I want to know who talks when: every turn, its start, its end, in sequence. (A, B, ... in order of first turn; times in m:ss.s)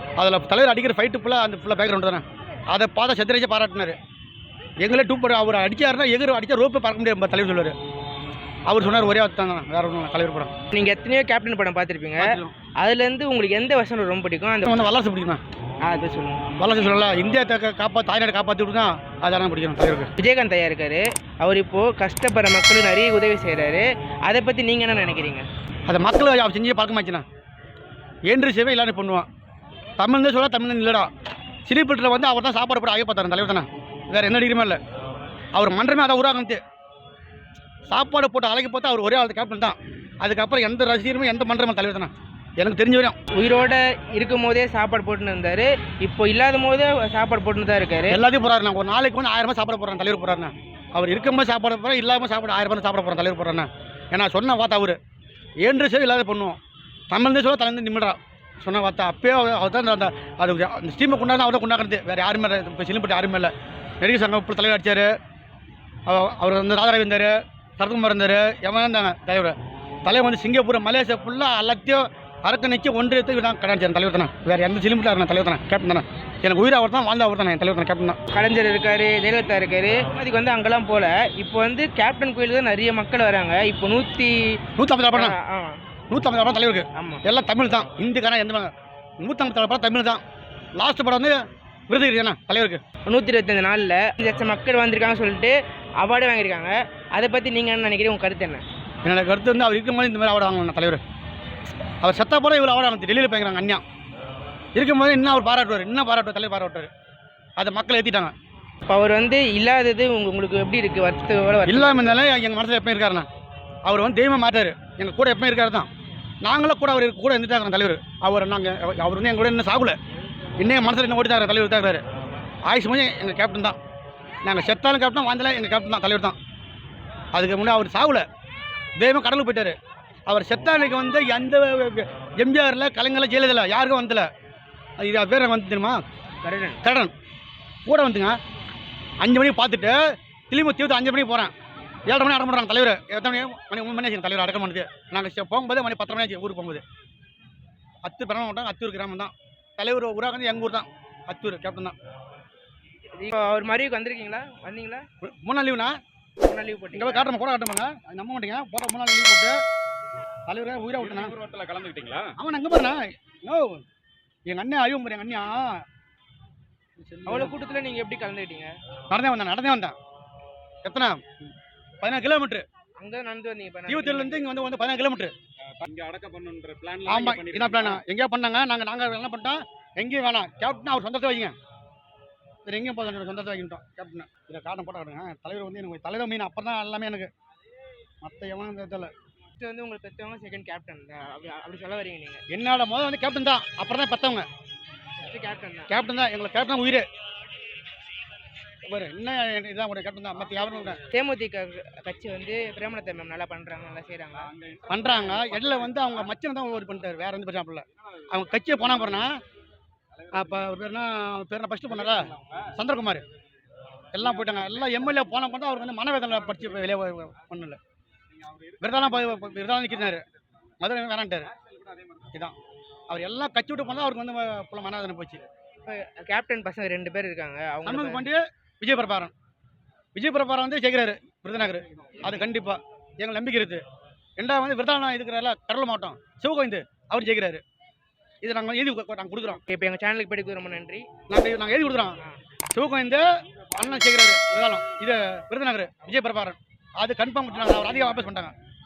0:00.2-0:04.0 A
0:04.8-0:07.7 A
0:08.7-0:10.5 A
0:10.7-0:14.9 B
0:12.2-0:12.5 A
0:14.6-0:15.4 A
0:15.8-0:16.5 B
0:16.6-0:20.1 A
0:20.2-0:25.5 B
0:25.8-0:27.2 A
0:28.3-0:29.3 A
0:30.0-0:31.1 A
0:31.6-0:34.8 A
0:35.5-0:36.6 A
0:37.9-0:43.2 A
0:43.3-0:48.2 B
0:48.1-0:55.0 A
0:55.6-0:56.6 A
0:57.1-1:05.1 A
1:06.1-1:18.2 A
1:18.3-1:24.6 B
1:24.8-1:25.4 A
1:25.1-1:25.8 B
1:26.1-1:30.2 A
1:26.9-1:27.2 B
1:30.8-1:32.8 A
1:33.0-1:38.6 B
1:39.0-1:41.0 A
1:42.0-1:43.8 A
1:44.7-1:46.9 A
1:47.6-1:48.3 A
1:48.9-1:52.2 B
1:51.7-1:53.3 A
1:53.8-1:55.9 A
1:56.4-2:00.0 A
2:00.6-2:02.0 A
2:02.6-2:03.8 A
2:04.4-2:06.4 A
2:07.3-2:08.2 A
2:09.0-2:09.7 A
2:10.3-2:14.3 A
2:15.0-2:16.0 A
2:16.4-2:16.8 B
2:16.8-2:17.1 A
2:17.8-2:18.4 A
2:19.2-2:21.5 A
2:22.1-2:26.8 A
2:28.0-2:32.0 A
2:33.2-2:35.0 B
2:35.2-2:36.0 A
2:36.4-2:37.3 B
2:36.9-2:39.6 A
2:40.5-2:41.4 A
2:41.3-2:42.3 C
2:42.4-2:43.8 A
2:44.5-2:45.8 A
2:47.0-2:47.5 A
2:47.3-2:48.8 B
2:49.1-2:50.0 A
2:50.8-2:51.5 A
2:52.0-2:52.6 A
2:53.0-2:54.5 B
2:53.9-2:55.3 A
2:55.7-2:57.7 C
2:57.0-3:01.5 A
3:02.6-3:07.3 A
3:08.2-3:09.1 A
3:09.5-3:12.4 B
3:12.5-3:14.5 A
3:15.2-3:15.9 B
3:15.9-3:17.0 A
3:18.8-3:21.0 A
3:21.0-3:25.5 B
3:24.6-3:24.9 C
3:24.9-3:29.4 A
3:30.3-3:33.2 A
3:34.1-3:37.8 A
3:38.8-3:40.2 A
3:40.8-3:41.5 A
3:42.2-3:42.6 A
3:43.1-3:45.4 A
3:45.8-3:48.3 B
3:47.8-3:49.3 A
3:50.1-3:53.8 A
3:54.4-3:57.6 A
3:58.4-3:59.6 A
3:59.7-4:01.1 B
4:01.3-4:02.2 A
4:02.7-4:08.5 A